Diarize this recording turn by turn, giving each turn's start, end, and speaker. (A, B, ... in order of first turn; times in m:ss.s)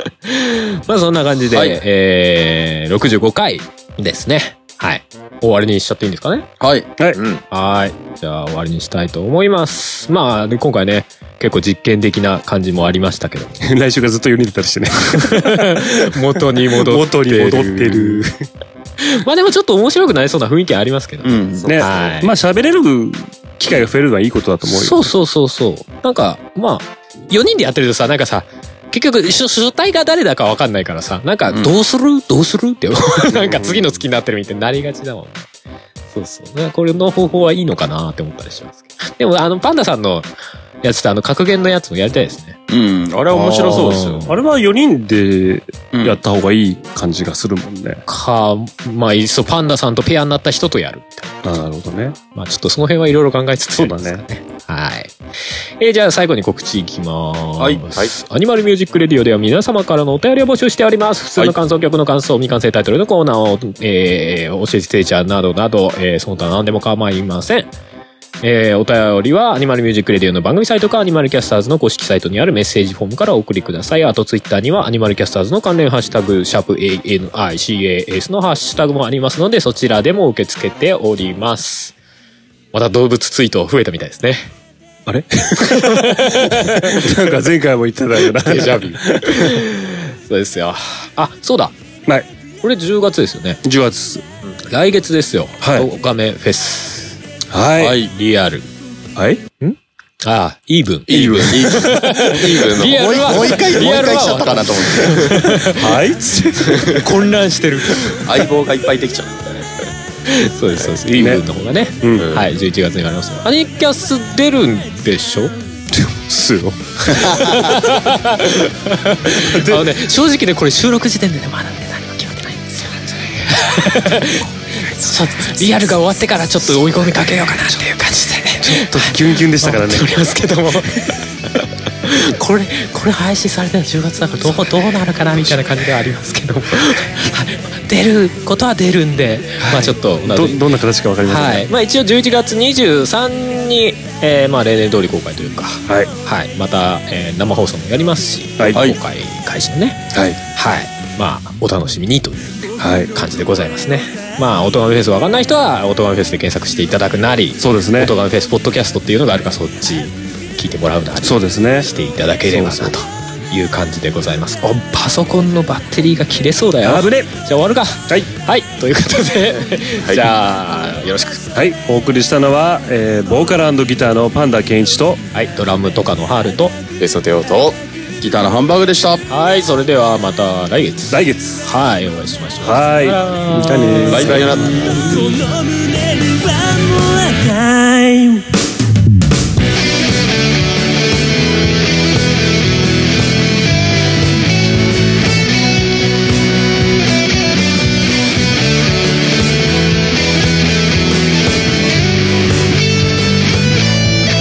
0:00.3-0:06.5 A
0:01.5-0:01.8 B
0:06.6-0:06.9 B
0:07.2-0:07.4 C
0:07.5-0:13.6 A
0:13.6-0:16.1 D
0:15.2-0:18.3 A
0:16.7-0:18.3 D
0:19.0-0:22.3 A
0:21.2-0:21.8 B
0:21.7-0:25.0 D
0:24.7-0:35.5 A
0:33.3-0:33.8 D
0:36.1-0:40.3 A
0:40.8-0:42.6 A
0:42.7-0:44.3 B
0:43.3-0:48.1 D
0:43.5-0:44.4 A
0:45.9-0:46.2 B
0:48.1-0:51.4 A
0:51.4-0:52.2 D
0:52.4-0:55.2 A
0:53.8-0:54.2 D
0:55.8-1:07.7 A
1:08.4-1:21.9 A
1:22.7-1:24.5 A
1:25.1-1:29.6 D
1:25.7-1:27.1 A
1:28.3-1:31.7 A
1:32.6-1:33.6 A
1:33.6-1:34.2 D
1:34.7-1:37.2 A
1:35.6-1:35.9 D
1:37.5-1:38.0 D
1:37.8-1:38.1 B
1:38.0-1:38.7 A
1:39.2-1:39.4 D
1:39.6-1:46.0 A
1:41.1-1:41.7 D
1:41.1-1:43.8 C
1:41.3-1:41.9 B
1:42.8-1:45.4 B
1:45.7-1:46.7 D
1:46.6-1:47.0 C
1:46.6-1:48.4 A
1:48.1-1:49.4 B
1:50.3-1:55.5 A
1:51.2-1:51.4 D
1:52.0-1:52.3 D
1:52.2-1:52.5 C
1:55.9-1:57.7 D
1:57.1-2:30.0 A
1:59.3-1:59.8 D
2:08.6-2:10.2 D
2:19.6-2:21.7 D
2:30.6-2:32.6 A
2:32.8-2:33.1 D
2:33.1-2:51.4 A
2:37.6-2:38.1 D
2:41.2-2:41.9 D
2:42.5-2:42.9 D
2:46.8-2:47.3 D
2:51.6-2:55.2 D
2:55.3-2:56.8 A
2:57.0-2:57.8 C
2:58.2-2:59.2 B
2:59.3-3:05.2 A
3:01.1-3:01.6 D
3:02.6-3:04.6 D
3:04.1-3:05.3 B
3:04.2-3:05.1 C
3:05.1-3:08.5 E